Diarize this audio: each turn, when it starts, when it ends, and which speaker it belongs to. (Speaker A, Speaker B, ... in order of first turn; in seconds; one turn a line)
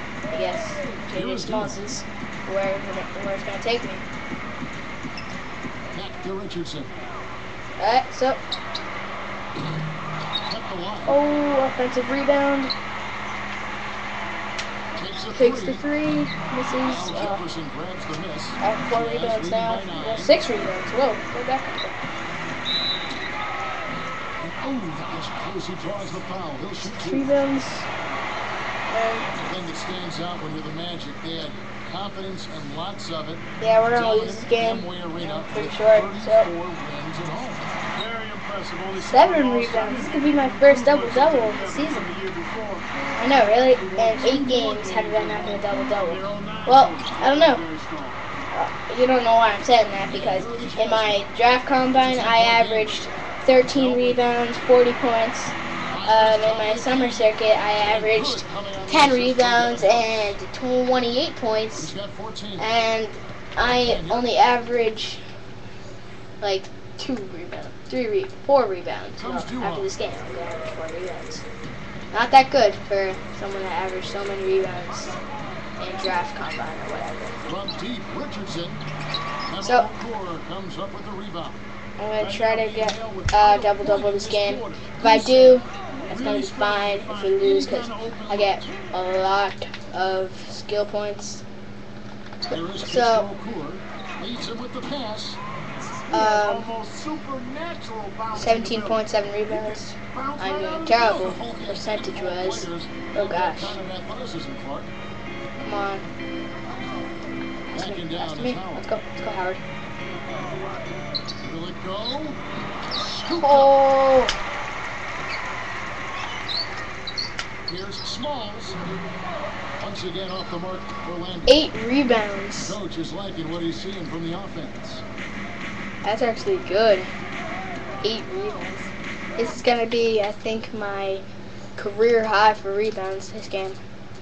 Speaker A: 0.3-4.0
Speaker B: 1.1-1.9
Speaker B: 5.9-6.9
Speaker A: 7.8-8.4
Speaker B: 10.4-11.2
Speaker A: 11.1-12.7
Speaker B: 14.9-15.8
Speaker A: 15.3-17.4
Speaker B: 16.8-20.4
Speaker A: 18.6-21.9
Speaker B: 24.4-27.3
Speaker A: 26.8-27.9
Speaker A: 28.9-29.3
Speaker B: 29.4-37.7
Speaker A: 33.6-36.5
Speaker C: 37.9-42.9
Speaker A: 39.0-42.1
Speaker A: 43.2-47.6
Speaker C: 43.6-48.2
Speaker A: 48.5-61.9
Speaker B: 50.1-51.2
Speaker B: 51.9-53.0
Speaker B: 53.7-54.3
Speaker B: 55.9-60.4
Speaker B: 61.7-62.7
Speaker A: 62.6-65.2
Speaker B: 63.6-64.3
Speaker A: 66.4-71.5
Speaker B: 69.2-69.9
Speaker A: 72.1-75.2
Speaker A: 75.8-77.5
Speaker B: 77.5-78.8
Speaker B: 79.5-81.6
Speaker A: 79.6-79.9
Speaker A: 82.0-91.4
Speaker C: 82.2-88.9
Speaker B: 92.5-95.4
Speaker A: 92.5-93.3
Speaker A: 96.1-96.7
Speaker C: 96.1-101.3
Speaker A: 98.3-103.8
Speaker B: 100.9-104.9
Speaker A: 105.6-106.0
Speaker A: 107.7-109.6
Speaker B: 107.7-108.9
Speaker B: 111.4-112.4
Speaker B: 112.9-113.7
Speaker A: 113.4-114.3
Speaker B: 117.7-118.8
Speaker B: 119.8-121.7
Speaker A: 121.5-122.8
Speaker B: 122.6-125.0
Speaker A: 126.0-127.1
Speaker A: 128.0-131.2
Speaker A: 131.8-133.8